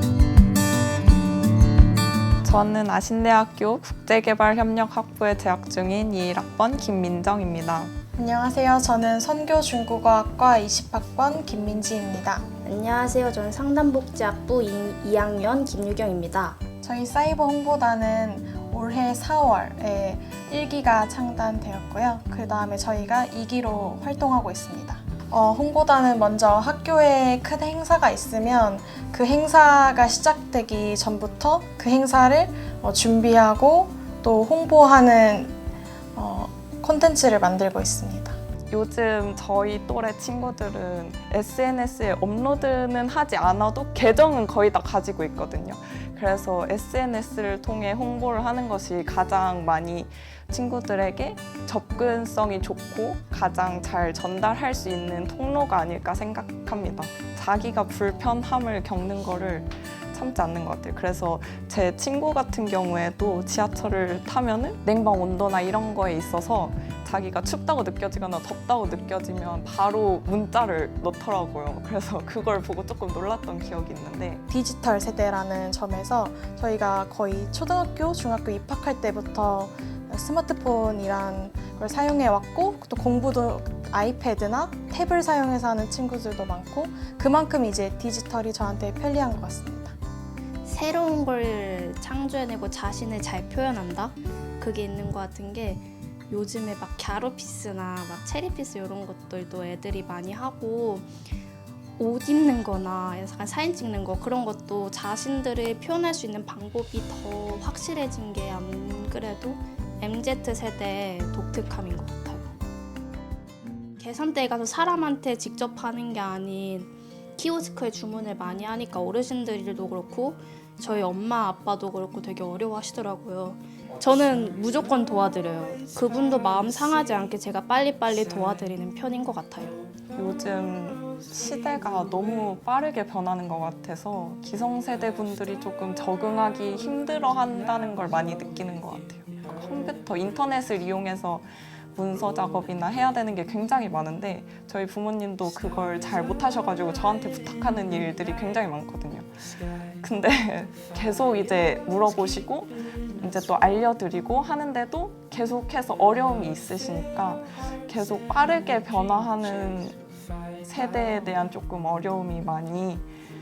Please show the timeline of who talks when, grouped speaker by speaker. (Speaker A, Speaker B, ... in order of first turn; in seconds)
Speaker A: 2.4-7.9, 38.7-74.4, 130.2-149.3, 150.0-160.0, 160.7-163.1
Speaker B: 8.2-12.4, 16.8-35.5, 36.1-38.4, 74.5-89.9
Speaker C: 12.6-16.6, 90.6-101.1, 102.0-112.6, 114.0-129.8